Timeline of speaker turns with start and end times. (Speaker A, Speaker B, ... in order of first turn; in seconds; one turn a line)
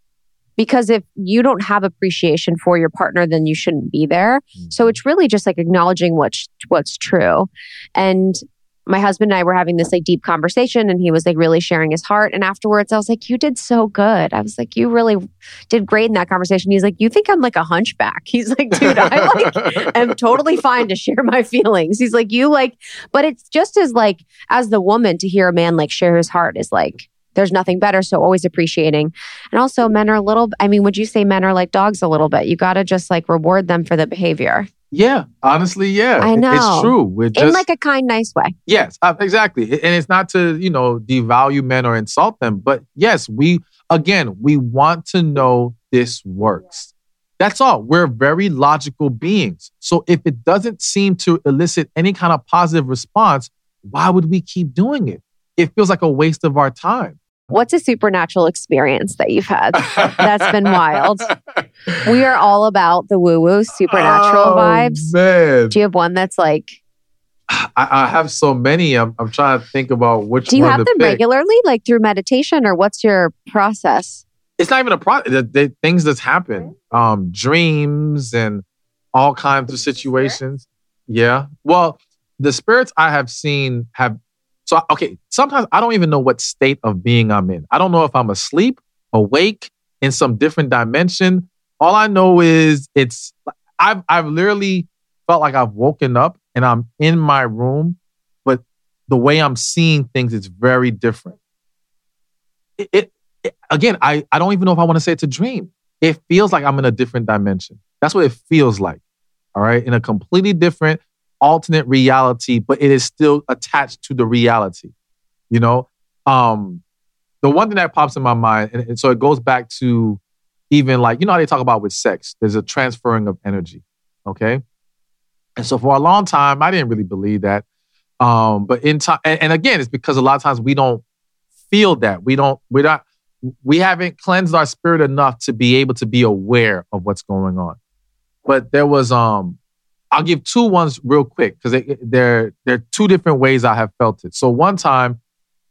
Speaker A: 0.6-34.7
Speaker B: 4.5-5.0
Speaker B: 18.8-20.1
Speaker B: 34.9-37.6
Speaker A: 36.2-38.5
Speaker B: 38.7-57.2
Speaker A: 57.5-61.3
Speaker B: 59.8-62.1
Speaker A: 62.0-65.1
Speaker B: 63.8-65.8
Speaker A: 65.7-66.8
Speaker B: 67.5-71.2
Speaker A: 70.5-74.2
Speaker B: 74.6-101.4
Speaker B: 102.8-109.0
Speaker B: 109.5-114.9
Speaker B: 115.5-116.8
Speaker B: 117.4-120.2
Speaker B: 120.7-124.6
Speaker B: 125.6-127.6
Speaker B: 128.2-131.0
Speaker B: 131.7-137.8
Speaker B: 138.4-139.6
Speaker B: 140.1-145.2